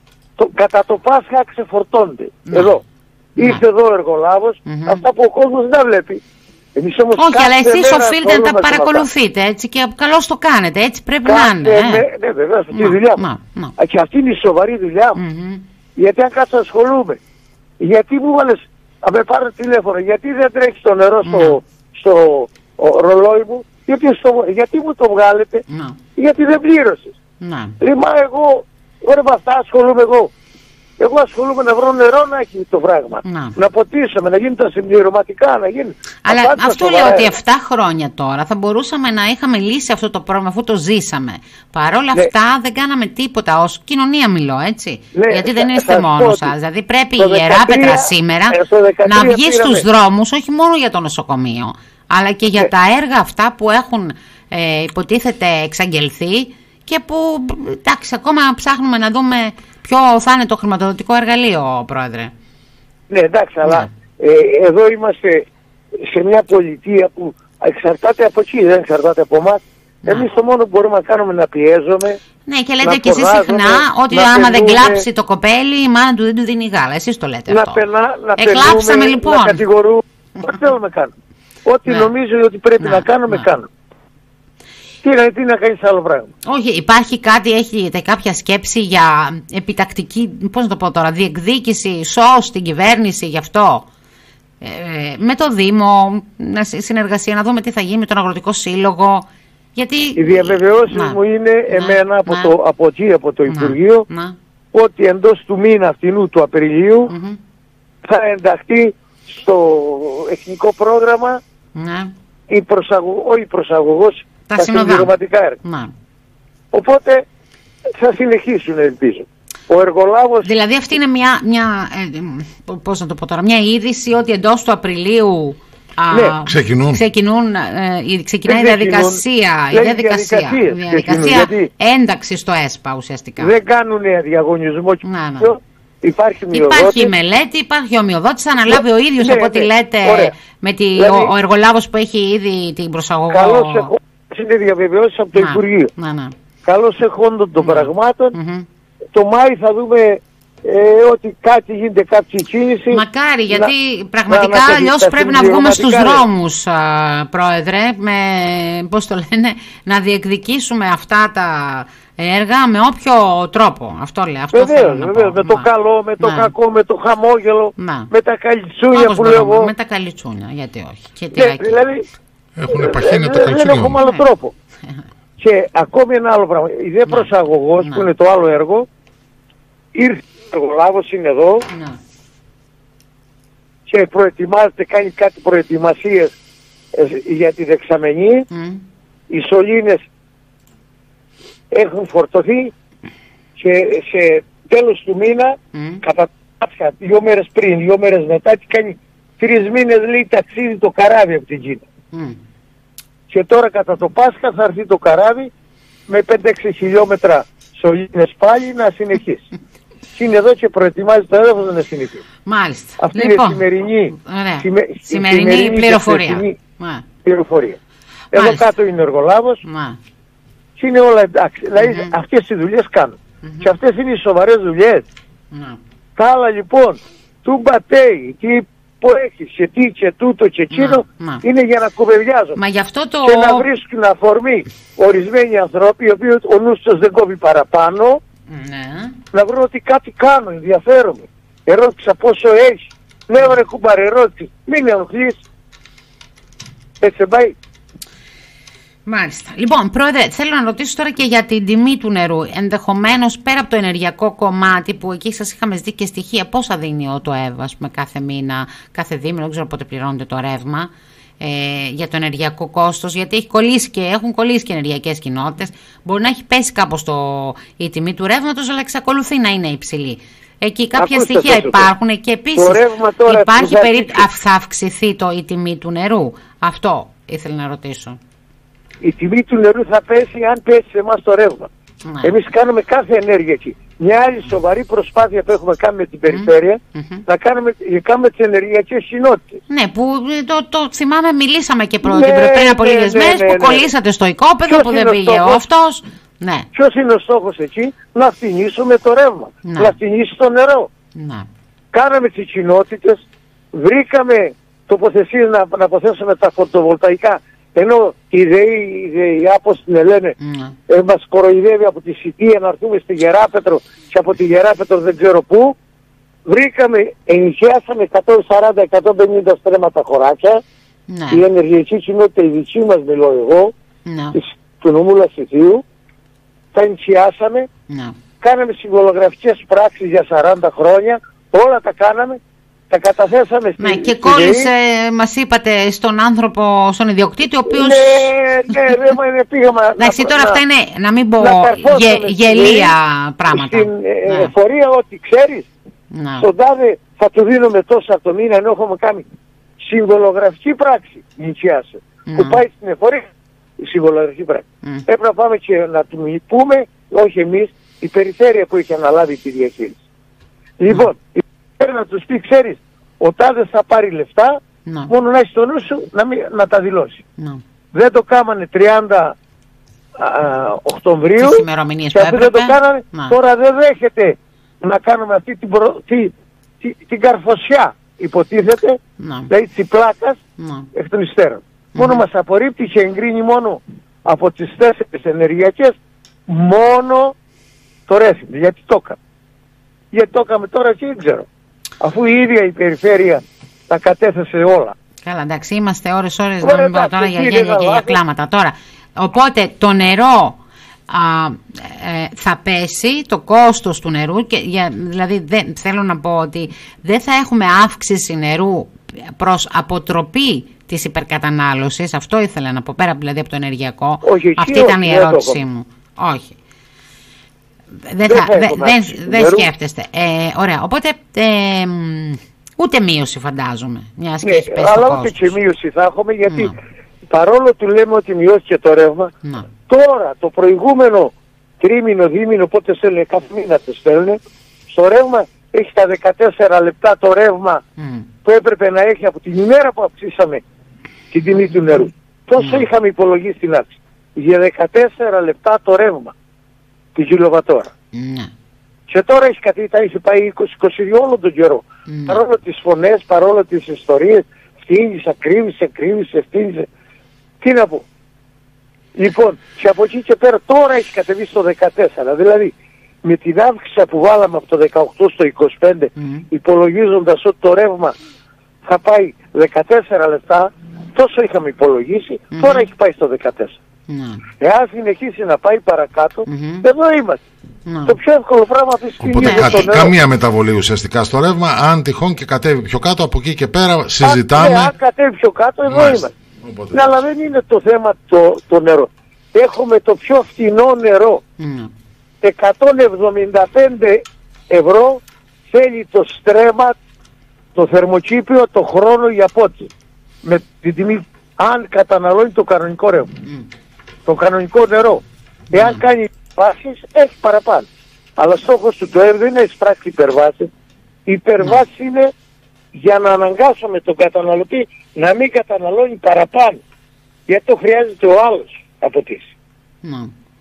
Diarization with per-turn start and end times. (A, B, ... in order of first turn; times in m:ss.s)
0:00.4-0:02.8 A
0:03.4-0:03.6 B
0:03.4-0:06.2 A
0:04.7-0:05.0 B
0:06.8-0:09.1 A
0:07.2-0:12.0 B
0:11.2-0:13.2 A
0:12.7-0:13.8 B
0:13.8-0:15.2 A
0:15.2-0:15.6 B
0:16.0-0:17.2 A
0:17.8-0:25.6 A
0:21.2-0:21.6 B
0:25.7-0:26.0 B
0:26.2-0:27.2 A
0:27.4-0:27.8 B
0:27.8-0:30.3 A
0:31.0-0:37.3 A
0:33.2-0:33.6 B
0:36.2-1:02.3 B
0:45.2-0:46.5 A
0:47.2-0:49.8 A
1:03.1-1:05.5 A
1:03.6-1:03.9 B
1:06.0-1:12.2 A
1:12.4-1:17.8 B
1:12.8-1:15.1 A
1:17.5-1:21.1 A
1:18.4-1:19.6 B
1:21.6-1:23.7 A
1:21.9-1:22.1 B
1:22.8-1:23.4 B
1:25.0-1:26.3 A
1:26.4-1:33.9 B
1:34.6-1:42.5 B
1:40.2-1:44.1 A
1:43.5-1:44.4 B
1:44.7-1:47.1 A
1:47.1-1:47.4 B
1:48.0-1:51.4 A
1:51.8-1:52.1 B
1:52.5-1:55.6 A
1:54.5-1:55.9 B
1:56.7-1:57.3 A
1:58.0-2:00.5 A
2:00.4-2:13.6 B
2:06.5-2:07.0 C
2:08.5-2:11.7 A
2:13.4-2:17.1 A
2:15.0-2:15.5 B
2:16.5-2:23.9 B
2:18.7-2:20.3 A
2:21.0-2:21.3 A
2:23.3-2:25.9 A
2:25.4-2:26.3 B
2:26.6-2:28.4 A
2:27.6-2:28.7 B
2:29.1-2:33.7 A
2:32.9-2:45.7 B
2:34.3-2:36.3 A
2:44.5-2:49.7 A
2:46.2-2:46.5 B
2:47.8-2:48.1 B
2:48.9-2:51.8 B
2:51.3-2:52.0 A
2:52.6-2:54.0 C
2:52.7-2:54.5 A
2:55.4-2:58.9 A
2:57.8-2:58.1 B
2:59.9-3:01.7 A
3:01.7-3:02.0 B
3:03.9-3:06.4 A
3:06.9-3:08.5 A
3:08.5-3:08.8 B
3:09.3-3:10.1 A
3:11.7-3:12.7 A
3:13.6-3:21.8 A
3:15.7-3:16.0 B
3:22.1-3:22.4 B
3:23.3-3:25.5 A
3:26.1-3:29.5 A
3:30.2-3:32.2 A
3:32.4-3:37.0 B
3:33.0-3:36.6 A
3:37.2-3:37.8 A
3:38.3-3:39.6 A
3:38.3-3:38.7 B
3:39.6-3:40.0 B
3:40.8-3:45.1 A
3:41.8-3:42.1 B
3:43.4-3:43.7 B
3:45.5-3:45.8 B
3:46.2-3:52.6 A
3:50.7-3:51.4 B
3:52.6-3:53.7 B
3:53.2-3:58.2 A
3:58.5-3:59.2 B
3:59.3-4:05.4 A
4:07.0-4:07.6 A
4:09.1-4:38.2 B
4:31.0-4:31.9 A
4:32.6-4:34.3 A
4:39.0-4:41.7 A
4:42.0-4:42.4 B
4:42.2-4:49.6 A
4:46.3-4:47.2 B
4:49.7-4:56.7 B
4:52.0-4:53.9 A
4:54.7-4:55.6 A
4:56.7-5:00.9 A
4:59.6-5:00.0 B
5:01.2-5:01.5 B
5:01.9-5:10.4 A
5:10.4-5:10.8 B
5:10.9-5:15.8 A
5:16.5-5:20.6 A
5:21.1-5:21.4 B
5:21.3-5:23.7 A
5:24.0-5:24.4 B
5:24.3-5:25.8 A
5:26.7-5:27.7 A
5:27.9-5:28.2 B
5:28.4-5:34.7 A
5:33.8-5:38.3 B
5:37.7-5:40.6 A
5:40.0-5:44.5 B
5:41.4-5:43.0 A
5:43.5-5:45.7 A
5:46.1-5:46.5 B
5:46.4-5:49.3 A
5:49.8-6:00.0 A
5:52.3-5:52.6 B
6:00.8-6:07.2 A
6:04.9-6:05.1 B
6:07.9-6:09.4 A
6:10.2-6:20.4 A
6:11.4-6:13.4 B
6:19.2-6:19.5 B
6:20.6-6:20.9 B
6:20.9-6:27.4 A
6:22.0-6:22.2 B
6:28.1-6:29.2 A
6:30.1-6:31.5 A
6:32.0-6:35.0 A
6:35.2-6:56.6 B
6:36.6-6:38.2 A
6:54.2-6:55.6 A
6:58.1-7:05.5 B
6:58.3-6:59.7 A
7:04.4-7:06.7 A
7:06.5-7:06.7 B
7:07.3-7:09.3 A
7:09.9-7:17.8 A
7:18.0-7:18.3 B
7:18.4-7:20.6 A
7:21.3-7:26.3 A
7:22.6-7:22.9 B
7:27.2-7:27.9 A
7:28.1-7:28.5 B
7:29.1-7:36.9 A
7:32.1-7:32.4 B
7:37.6-7:38.1 A
7:39.2-7:48.2 A
7:46.2-7:46.4 B
7:48.8-7:53.8 A
7:52.5-7:52.9 B
7:54.1-7:54.4 B
7:54.6-7:57.4 A
7:56.5-7:56.8 B
7:57.9-7:58.2 B
7:58.1-8:00.2 A
7:59.2-8:04.9 C
7:59.4-7:59.9 B
8:04.2-8:06.3 A
8:05.9-8:07.1 C
8:06.9-8:11.4 A
8:11.6-8:11.9 B
8:12.4-8:17.0 A
8:17.8-8:19.9 A
8:20.4-8:23.3 A
8:24.3-8:30.7 A
8:25.7-8:26.0 B
8:31.3-8:32.3 A
8:32.9-8:36.8 A
8:37.5-8:39.5 A
8:40.0-8:40.3 B